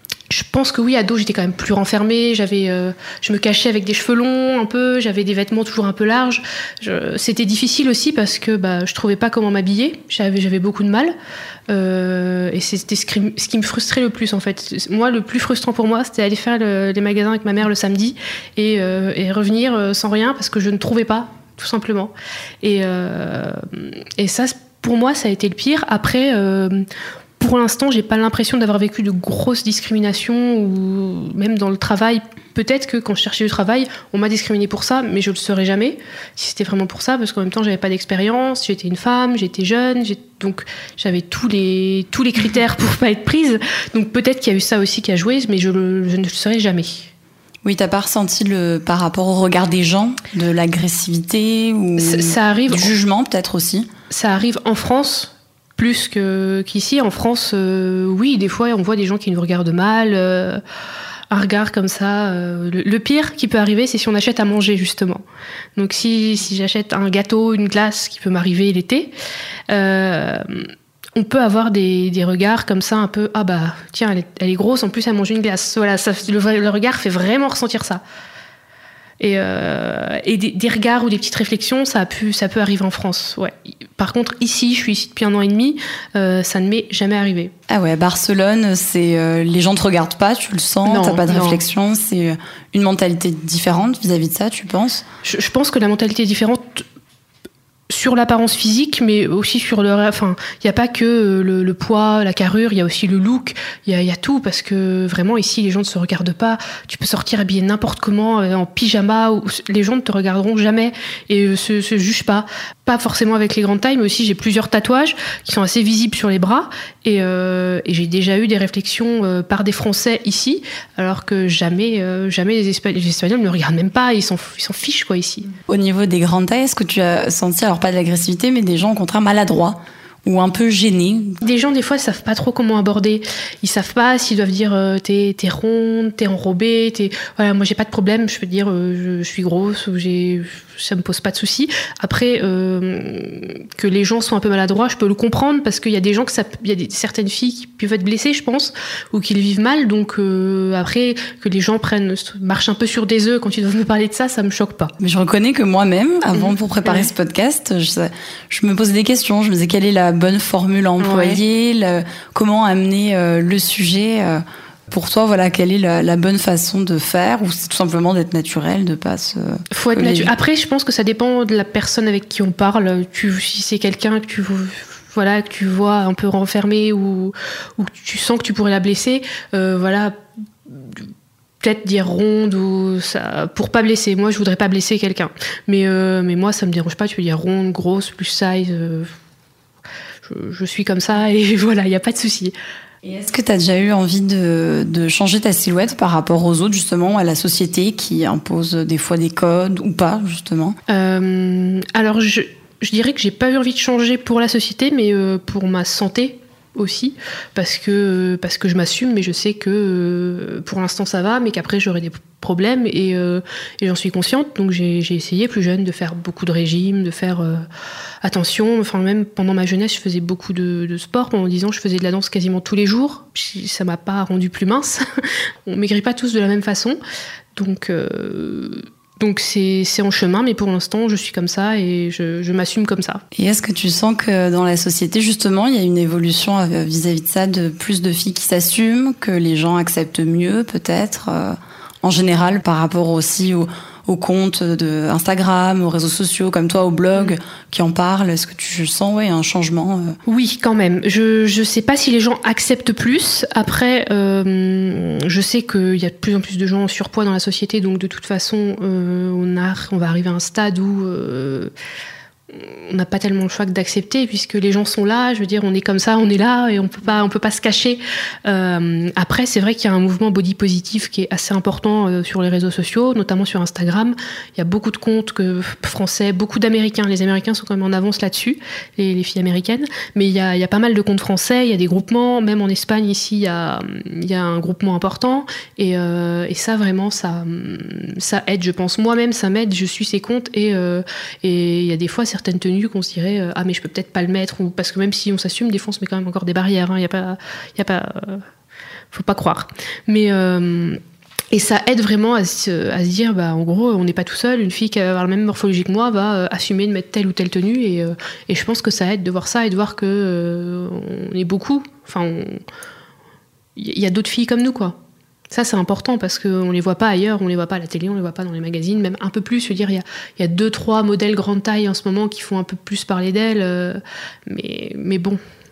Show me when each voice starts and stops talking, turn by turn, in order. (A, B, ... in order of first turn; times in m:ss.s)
0:00.3-0:11.1 A
0:11.7-0:26.8 A
0:27.4-0:47.1 A
0:47.6-0:53.9 B
0:52.0-0:52.9 A
0:54.1-1:00.6 A
1:01.3-1:05.2 A
1:05.8-1:09.1 A
1:09.7-1:18.0 A
1:19.2-1:27.5 A
1:27.7-1:35.0 B
1:30.8-1:31.6 A
1:35.2-1:36.8 A
1:37.9-2:05.5 A
2:05.7-2:11.4 B
2:11.4-2:34.9 A
2:35.0-2:50.3 B
2:36.3-2:37.1 A
2:41.0-2:41.4 A
2:49.7-3:00.1 A
3:00.7-3:01.0 A
3:01.6-3:09.1 A
3:10.2-3:12.5 A
3:13.0-3:20.8 B
3:20.9-3:37.6 A
3:38.2-3:45.0 A
3:45.6-3:47.0 A
3:47.5-3:53.2 A
3:53.3-4:10.2 B
4:10.2-4:21.7 A
4:22.5-4:58.4 A
4:59.1-5:01.0 A
5:01.5-5:12.6 A
5:13.8-5:15.0 A
5:15.5-5:25.4 A